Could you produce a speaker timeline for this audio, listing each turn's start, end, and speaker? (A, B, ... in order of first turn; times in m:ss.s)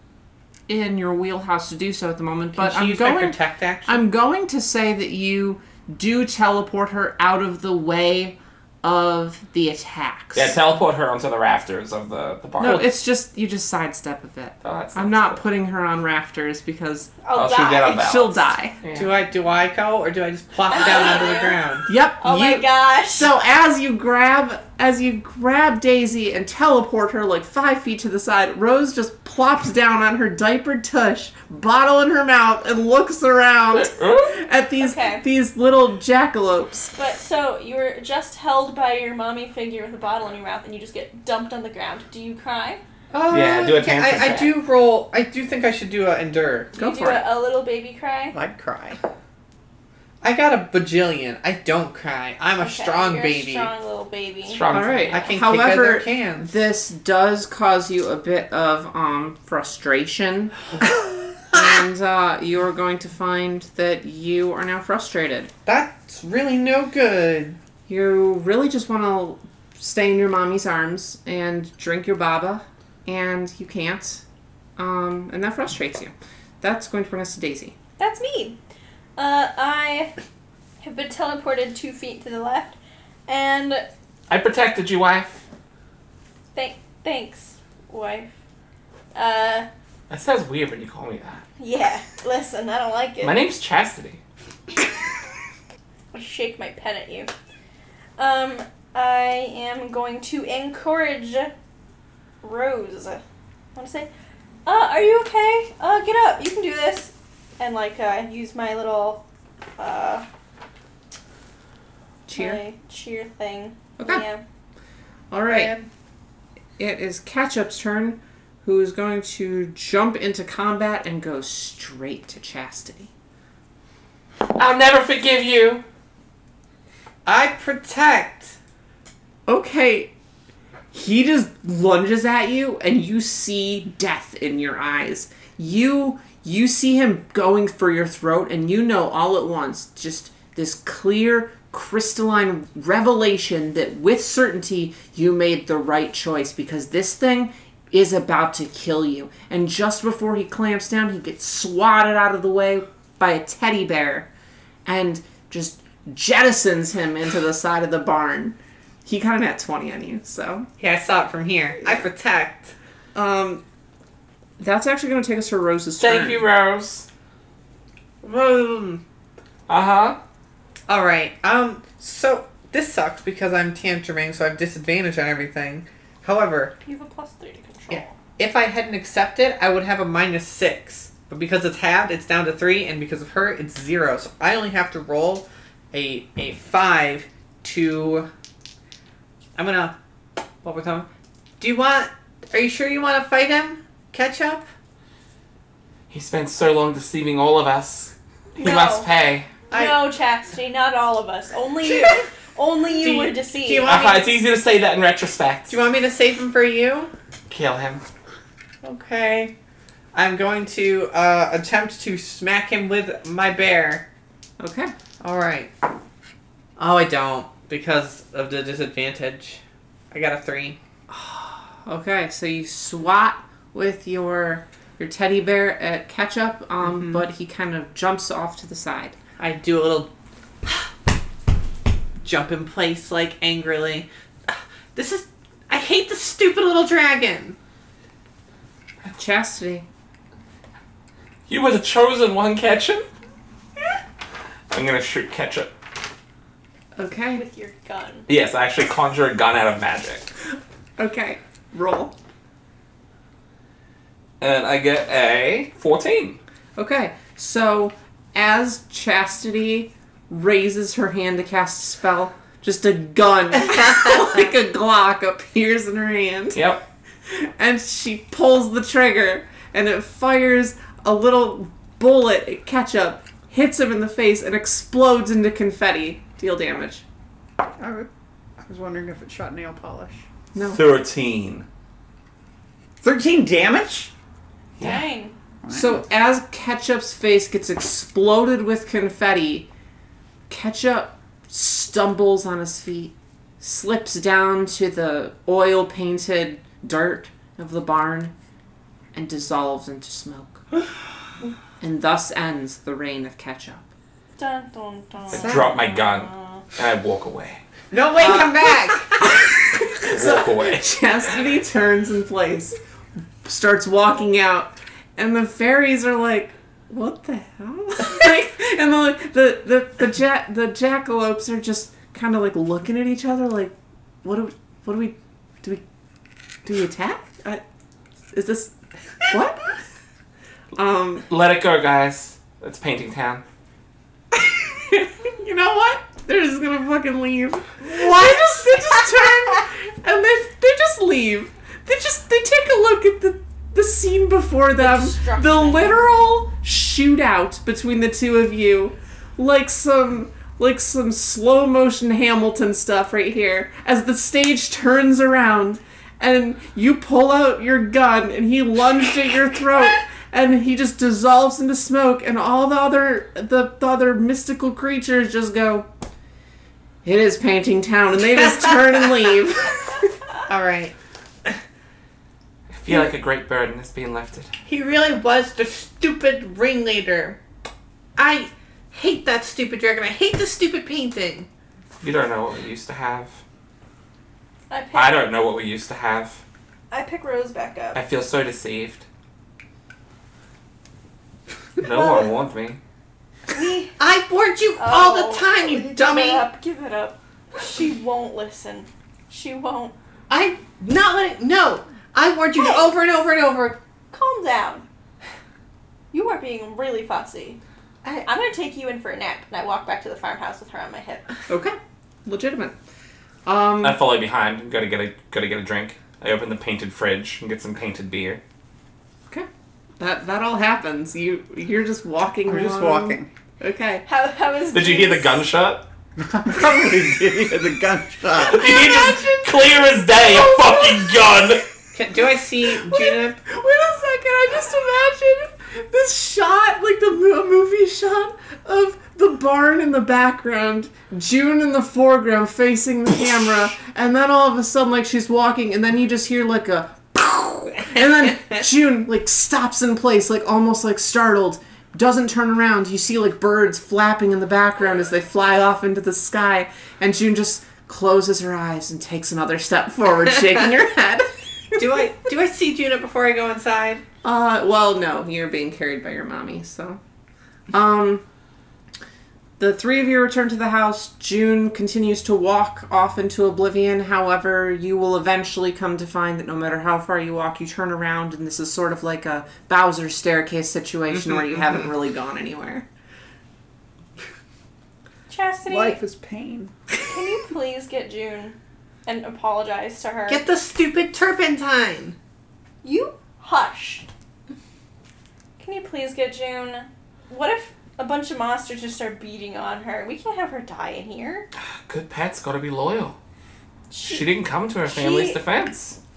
0:00.7-0:10.6 A
0:02.6-0:04.0 B
0:10.3-0:12.9 C
0:12.6-0:17.1 A
0:12.6-0:12.9 B
0:14.6-0:15.4 C
0:17.2-0:18.0 D
0:17.3-0:19.1 C
0:17.8-0:18.8 A
0:19.0-0:21.9 B
0:20.7-0:21.6 D
0:21.9-0:36.9 A
0:22.2-0:23.3 D
0:33.7-0:34.4 C
0:34.8-0:35.2 D
0:37.0-0:42.8 D
0:43.1-0:46.7 B
0:43.3-0:44.6 C
0:46.8-0:47.3 A
0:46.8-0:48.4 D
0:48.3-0:49.0 E
0:50.2-0:53.7 B
0:52.6-0:54.7 D
0:54.4-0:55.2 C
0:54.7-1:00.7 A
0:55.1-0:56.6 B
1:01.5-1:05.5 A
1:05.7-1:07.6 B
1:07.9-1:14.2 A
1:14.8-1:17.8 A
1:18.0-1:18.6 D
1:19.2-1:20.1 D
1:20.8-1:23.9 D
1:24.3-1:25.4 C
1:26.5-1:28.3 D
1:29.1-1:29.7 D
1:30.1-1:31.5 C
1:31.6-1:33.5 D
1:33.2-1:34.2 C
1:36.1-1:37.3 D
1:38.2-1:41.5 D
1:42.4-1:43.2 D
1:43.8-1:44.1 D
1:44.6-1:49.2 D
1:49.8-1:50.2 D
1:52.3-1:52.6 A
1:52.3-1:54.4 D
1:54.0-1:54.2 A
1:55.3-1:55.8 A
1:55.5-1:55.8 D
1:56.8-2:03.1 A
2:04.6-2:05.8 C
2:07.3-2:08.6 B
2:09.5-2:10.1 A
2:10.9-2:34.3 A
2:34.8-2:40.7 A
2:40.8-2:42.7 B
2:43.2-2:43.6 A
2:44.6-2:46.5 A
2:46.0-2:47.1 C
2:48.2-2:49.0 B
2:49.7-2:50.2 C
2:50.9-2:56.8 B
2:56.8-2:58.2 D
2:57.9-3:08.3 B
3:09.6-3:09.9 B
3:10.6-3:11.1 B
3:11.6-3:14.7 B
3:16.1-3:19.6 C
3:18.6-3:19.1 D
3:19.7-3:24.2 D
3:19.7-3:20.1 B
3:21.8-3:22.2 B
3:22.9-3:24.2 B
3:23.8-3:25.8 C
3:25.7-3:27.1 B
3:27.5-3:28.0 C
3:28.8-3:29.5 B
3:30.1-3:34.1 B
3:34.6-3:34.9 A
3:35.2-3:35.7 B
3:36.8-3:40.8 B
3:41.1-3:49.2 A
3:46.9-3:47.2 B
3:49.4-3:50.1 B
3:52.2-3:57.6 B
3:59.1-3:59.9 A
4:01.5-4:03.1 C
4:04.7-4:05.7 C
4:07.0-4:07.4 A
4:07.4-4:08.3 D
4:08.3-4:10.3 C
4:11.0-4:12.2 A
4:14.4-4:16.4 C
4:16.8-4:26.6 A
4:26.5-4:26.9 C
4:27.3-4:37.0 A
4:37.8-4:38.1 E
4:38.6-4:40.2 E
4:40.6-4:40.8 A
4:40.6-4:41.7 C
4:43.0-4:44.1 E
4:44.8-4:45.1 C
4:44.8-4:45.4 D
4:45.6-4:46.0 E
4:45.7-4:49.7 A
4:50.5-4:58.3 A
4:59.1-5:00.6 A
5:01.8-5:03.9 A
5:04.4-5:06.6 D
5:05.3-5:07.6 C
5:07.9-5:09.1 B
5:08.2-5:08.5 A
5:09.2-5:12.8 A
5:10.0-5:10.9 C
5:13.4-5:25.8 A
5:26.6-5:27.6 A
5:28.3-5:29.8 A
5:30.8-5:31.3 A
5:31.3-5:33.4 C
5:34.4-6:05.9 A
5:44.8-5:46.0 D
6:07.0-6:10.1 A
6:10.5-6:11.0 B
6:12.7-6:14.5 C
6:14.6-6:17.4 B
6:18.2-6:21.5 B
6:22.0-6:23.4 C
6:24.7-6:25.3 D
6:24.9-6:26.4 C
6:26.9-6:28.0 D
6:27.9-6:29.1 C
6:31.8-6:32.8 C
6:33.5-6:33.9 D
6:34.0-6:36.5 B
6:34.8-6:39.9 D
6:40.3-6:43.8 B
6:42.6-6:42.9 D
6:44.1-6:44.8 D
6:46.1-6:47.6 D
6:48.3-6:51.3 D
6:51.5-6:52.8 A
6:53.5-6:54.0 A
6:53.8-6:58.4 C
7:00.0-7:04.1 A
7:02.5-7:03.3 E
7:04.1-7:05.5 D
7:04.7-7:05.9 C
7:06.2-7:08.8 E
7:08.4-7:11.6 C
7:08.9-7:09.4 A
7:10.4-7:11.0 A
7:11.9-7:13.4 B
7:12.8-7:42.2 A
7:41.8-7:44.0 B
7:44.2-7:47.0 A
7:47.7-7:48.2 A
7:49.6-8:02.9 A
8:05.3-8:06.0 D
8:05.7-8:06.7 E
8:07.1-8:10.4 D
8:10.3-8:12.2 B
8:12.8-8:14.1 D
8:15.6-8:21.5 D
8:21.8-8:23.2 C
8:23.9-8:25.4 D
8:24.0-8:26.0 C